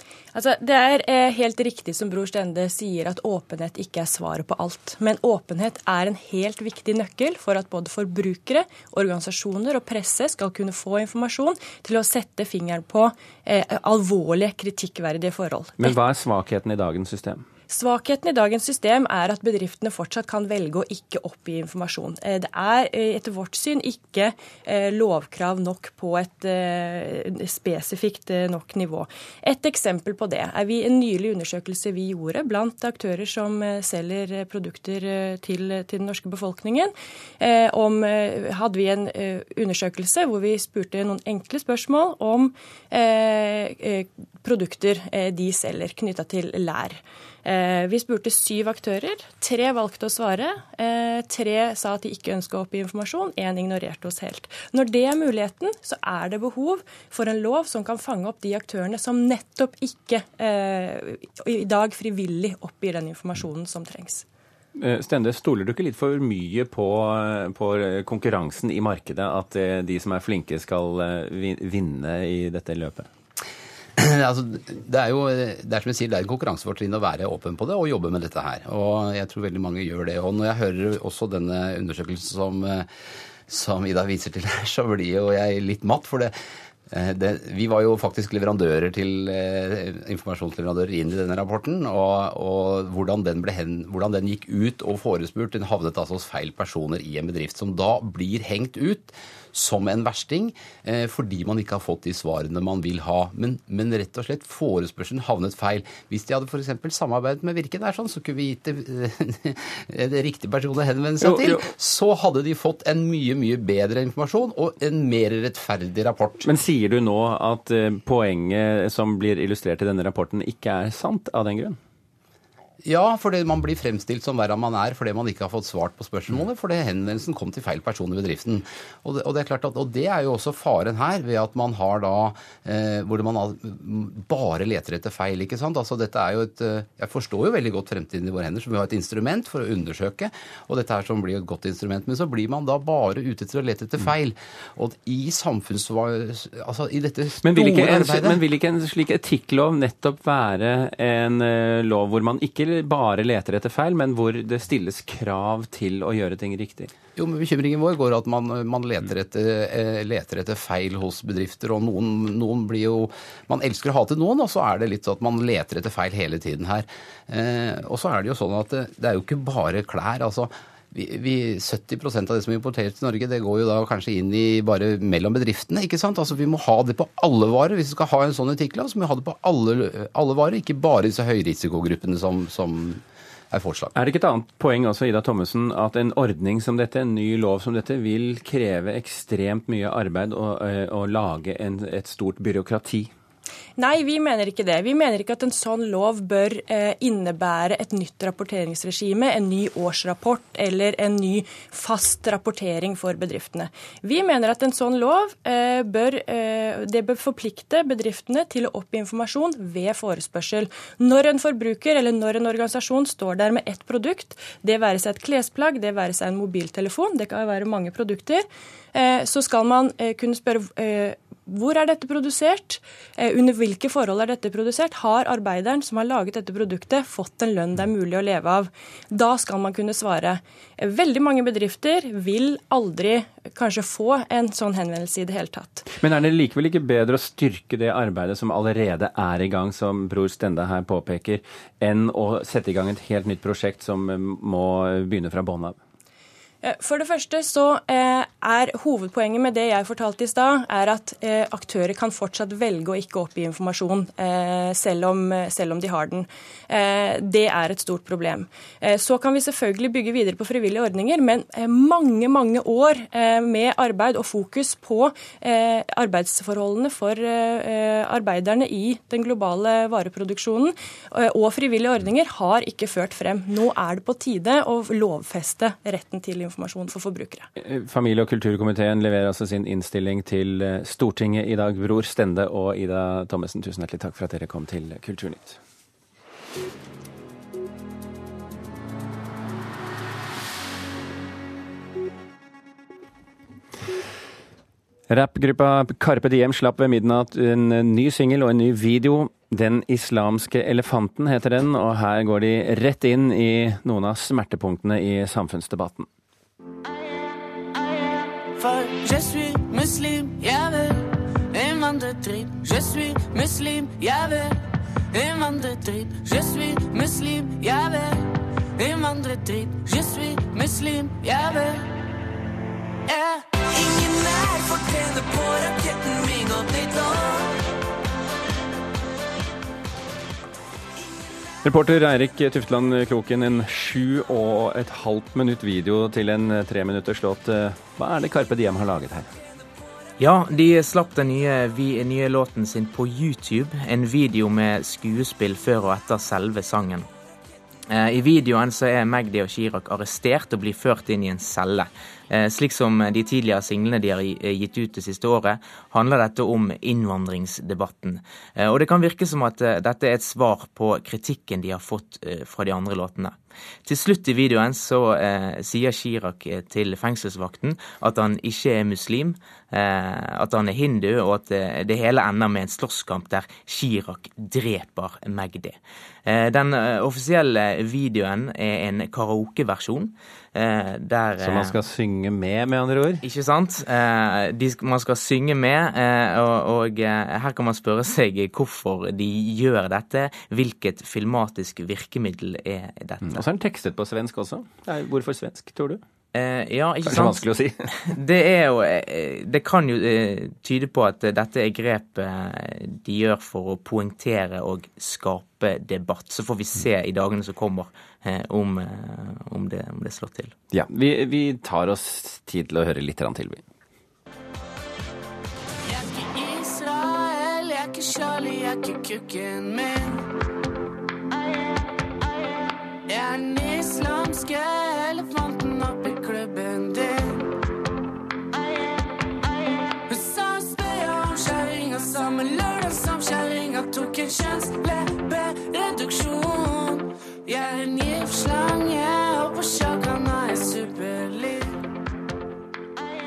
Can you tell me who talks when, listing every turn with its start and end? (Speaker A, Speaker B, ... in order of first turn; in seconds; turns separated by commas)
Speaker A: 0.3-15.9, Speaker B: 15.8-17.4, Speaker A: 17.7-64.2, Speaker B: 64.8-73.1, Speaker C: 74.0-82.9, Speaker C: 83.5-86.3, Speaker C: 86.9-116.5, Speaker B: 111.2-111.6, Speaker B: 116.4-121.8, Speaker C: 122.8-148.4, Speaker B: 147.4-156.9, Speaker C: 157.2-183.9, Speaker B: 183.9-193.1, Speaker A: 193.8-235.8, Speaker B: 235.9-245.8, Speaker A: 246.6-277.5, Speaker B: 277.6-285.6, Speaker B: 295.1-306.1, Speaker D: 308.6-314.6, Speaker D: 315.1-321.9, Speaker D: 323.1-327.6, Speaker B: 331.6-339.3, Speaker E: 340.2-347.1, Speaker E: 347.9-381.8, Speaker B: 381.4-383.2, Speaker E: 383.2-393.4, Speaker B: 393.2-396.0, Speaker E: 396.3-397.5, Speaker B: 397.1-397.9, Speaker E: 398.0-410.5, Speaker B: 410.7-413.6, Speaker D: 415.9-420.2, Speaker D: 423.1-427.5, Speaker D: 430.1-441.8